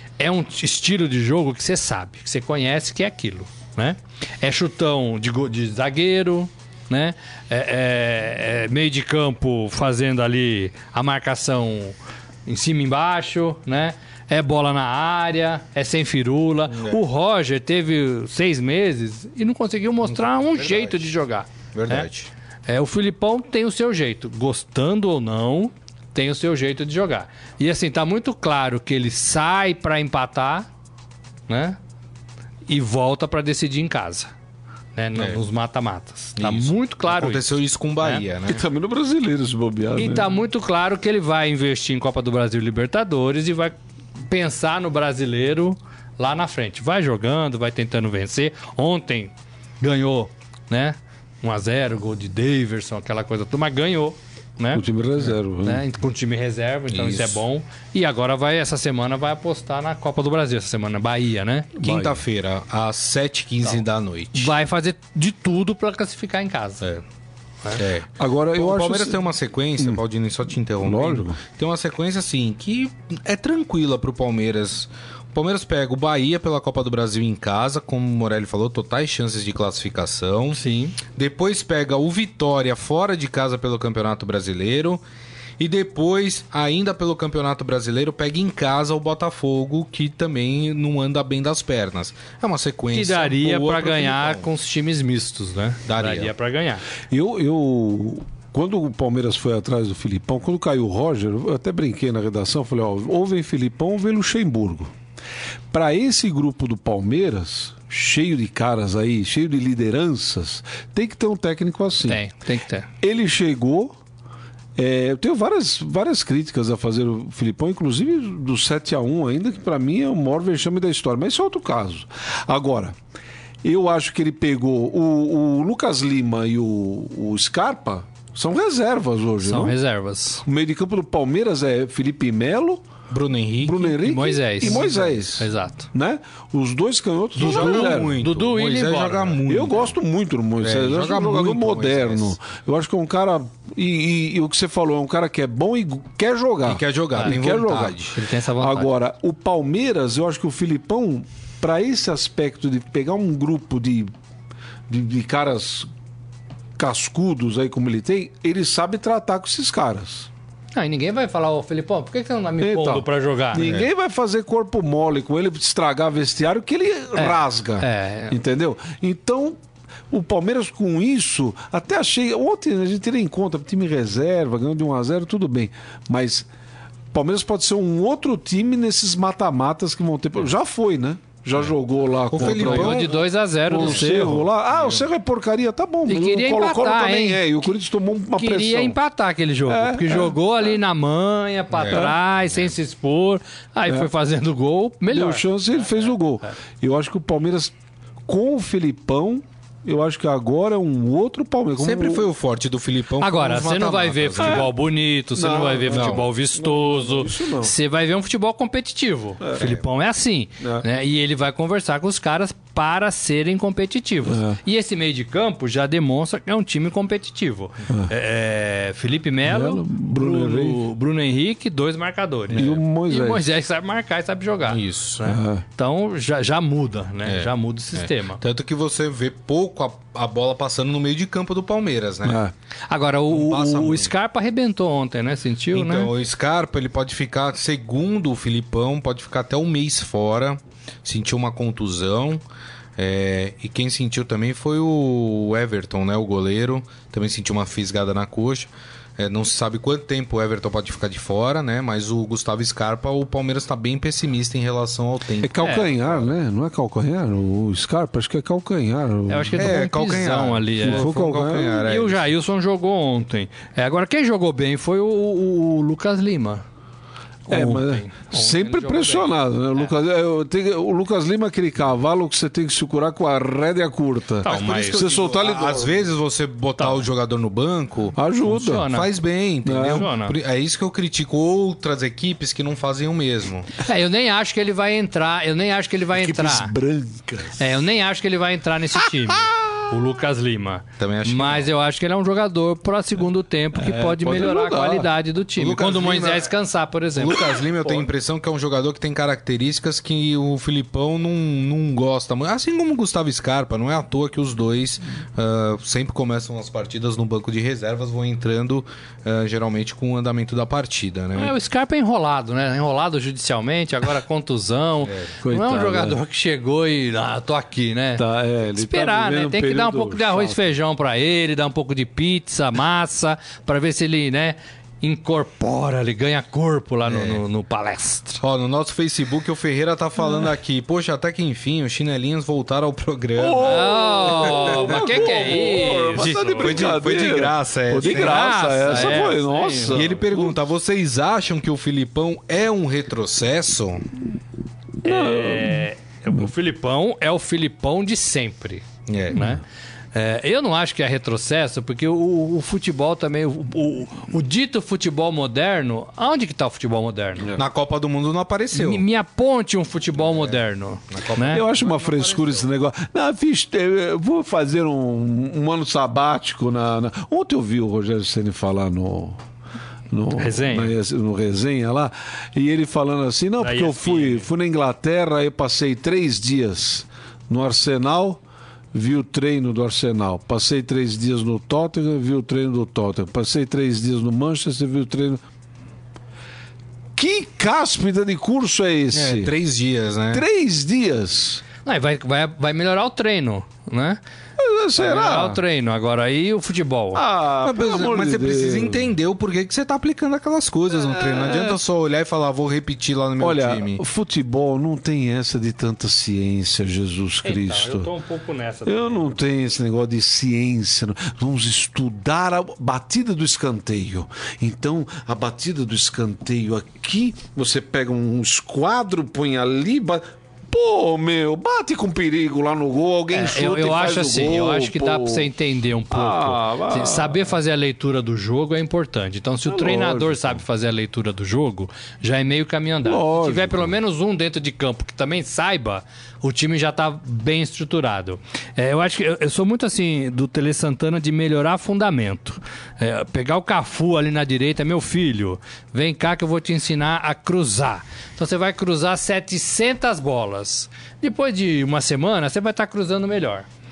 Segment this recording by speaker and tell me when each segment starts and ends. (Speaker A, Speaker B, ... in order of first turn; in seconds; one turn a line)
Speaker A: 0.2-22.1
Speaker B: 16.7-17.0
Speaker B: 20.1-21.1
Speaker B: 21.7-22.3
Speaker A: 22.7-30.7
Speaker A: 31.5-31.8
Speaker A: 32.7-34.3
Speaker A: 35.0-37.5
Speaker B: 35.2-35.4
Speaker B: 36.4-38.6
Speaker C: 38.5-40.3
Speaker A: 40.0-43.8
Speaker A: 44.3-54.9
Speaker C: 54.7-55.8
Speaker A: 55.6-61.7
Speaker B: 56.9-57.4
Speaker C: 61.8-62.2
Speaker B: 61.8-64.5
Speaker A: 64.3-66.9
Speaker B: 67.7-85.0
Speaker C: 68.2-69.2
Speaker C: 70.8-71.4
Speaker A: 80.5-81.0
Speaker B: 85.6-94.5
Speaker A: 92.9-96.8
Speaker B: 95.9-96.3
Speaker C: 97.1-104.9
Speaker C: 105.7-112.2
Speaker A: 112.0-112.9
Speaker C: 113.0-114.0
Speaker C: 114.8-123.0
Speaker C: 123.6-129.8
Speaker A: 129.4-130.4
Speaker C: 130.4-132.8
Speaker B: 133.1-133.9
Speaker C: 133.6-138.2
Speaker A: 133.9-135.9
Speaker B: 134.6-135.1
Speaker A: 137.4-139.4
Speaker B: 137.4-140.0
Speaker C: 139.5-154.1
Speaker B: 140.6-142.4
Speaker B: 146.7-148.2
Speaker A: 148.1-148.9
Speaker C: 154.9-155.9
Speaker C: 156.8-160.3
Speaker A: 160.7-163.7
Speaker C: 162.6-169.6
Speaker B: 163.6-163.9
Speaker A: 167.2-168.4
Speaker C: 170.1-176.5
Speaker C: 177.1-189.0
Speaker B: 182.3-185.0
Speaker A: 182.4-184.4
Speaker A: 186.1-187.6
Speaker A: 188.4-195.4
Speaker C: 189.7-190.4
Speaker B: 191.7-192.7
Speaker C: 195.1-197.7
Speaker C: 198.3-202.3
Speaker B: 201.8-204.7
Speaker A: 203.2-228.4
Speaker C: 204.4-204.7
Speaker C: 205.3-207.7
Speaker B: 205.9-206.3
Speaker C: 209.4-209.8
Speaker C: 210.6-210.9
Speaker C: 214.3-214.6
Speaker C: 219.4-220.8
Speaker B: 222.5-222.8
Speaker C: 222.6-223.5
Speaker B: 224.7-225.3
Speaker C: 225.2-225.6
Speaker B: 227.2-232.4
Speaker C: 232.2-232.5
Speaker A: 232.9-236.1
Speaker B: 233.3-234.1
Speaker B: 235.7-242.4
Speaker B: 243.0-256.3
Speaker C: 255.4-259.7
Speaker A: 255.6-255.9
Speaker A: 259.3-261.1
Speaker B: 259.6-262.3
Speaker C: 260.8-261.8
Speaker A: 261.8-266.6
Speaker A: 267.5-269.8
Speaker C: 267.5-276.1
Speaker A: 274.4-275.1
Speaker B: 274.4-278.2
Speaker A: 276.8-277.1
Speaker C: 278.1-278.9
Speaker A: 278.4-279.1
Speaker B: 278.8-283.7
Speaker C: 279.6-280.1
Speaker A: 279.8-280.4
Speaker A: 283.8-286.7
Speaker C: 286.1-287.7
Speaker A: 287.6-297.5
Speaker C: 289.3-289.7
Speaker B: 291.0-291.7
Speaker C: 293.7-295.1
Speaker B: 295.6-296.5
Speaker B: 297.1-311.6
Speaker A: 311.4-328.4
Speaker B: 315.0-315.3
Speaker C: 315.4-316.2
Speaker C: 318.2-320.6
Speaker B: 327.1-327.4
Speaker B: 328.4-335.6
Speaker C: 333.4-340.6
Speaker A: 333.6-336.9
Speaker B: 336.1-339.3
Speaker A: 338.0-340.1
Speaker B: 339.9-344.1
Speaker C: 345.0-346.5
Speaker A: 345.0-349.6
Speaker B: 349.1-349.5
Speaker A: 350.1-357.5
Speaker B: 357.6-359.0
Speaker A: 358.7-361.6
Speaker B: 360.2-360.6
Speaker B: 361.1-362.7
Speaker C: 361.5-369.4
Speaker C: 370.1-378.4
Speaker A: 370.4-370.9
Speaker A: 373.6-374.5
Speaker C: 378.9-385.4
Speaker C: 387.2-389.5
Speaker B: 389.1-390.4
Speaker C: 390.3-391.6
Speaker A: 391.9-394.2
Speaker C: 394.6-395.6
Speaker A: 395.0-397.2
Speaker C: 397.1-399.1
Speaker B: 397.6-404.0
Speaker C: 400.9-401.8
Speaker C: 403.4-408.1
Speaker A: 407.4-409.4
Speaker C: 408.9-425.5
Speaker A: 423.3-453.7
Speaker C: 426.1-427.5
Speaker C: 429.7-430.6
Speaker C: 433.1-433.9